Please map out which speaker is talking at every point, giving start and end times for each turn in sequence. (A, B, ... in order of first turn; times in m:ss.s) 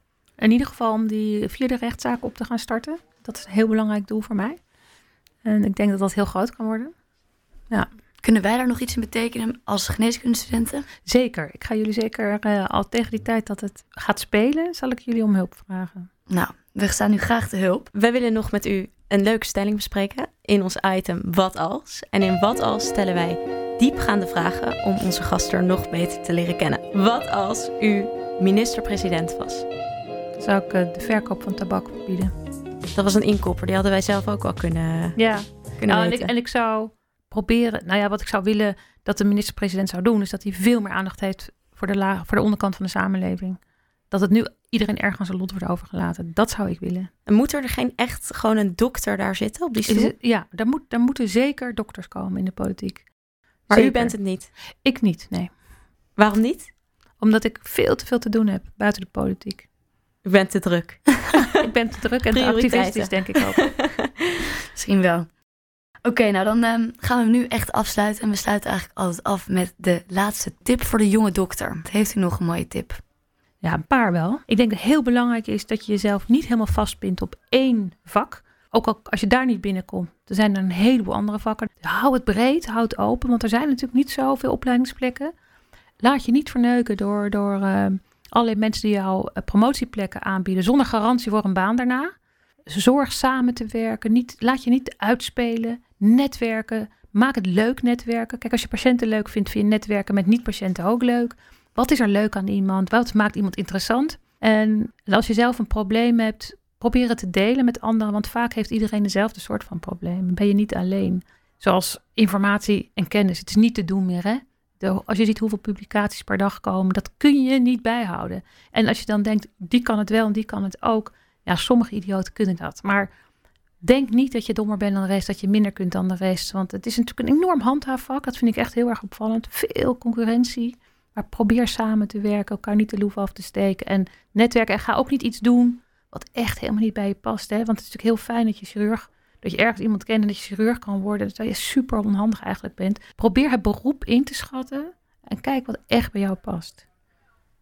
0:00.4-0:04.6 A
0:05.4-0:06.9 A
0:08.2-0:10.9 B
0:11.1-0:16.1 A
0:16.3-0:17.9 B
0:17.9-0:29.6 C
0:30.4-0:32.3 A
0:32.9-0:35.2 C
0:35.2-0:43.6 A
0:35.8-0:36.3 C
0:44.1-0:47.1 A
0:47.3-0:50.1 C
0:49.9-0:53.1 A
0:53.7-0:54.2 A
0:53.7-0:54.5 C
0:54.8-0:55.5 A
0:56.2-0:56.7 C
0:57.2-0:59.7 A
1:00.2-1:01.6 C
1:01.5-1:03.7 A
1:02.3-1:04.1 C
1:04.7-1:05.3 B
1:06.0-1:13.0 B
1:13.6-1:25.3 A
1:26.0-1:32.1 A
1:32.7-2:03.1 A
2:03.8-2:26.8 A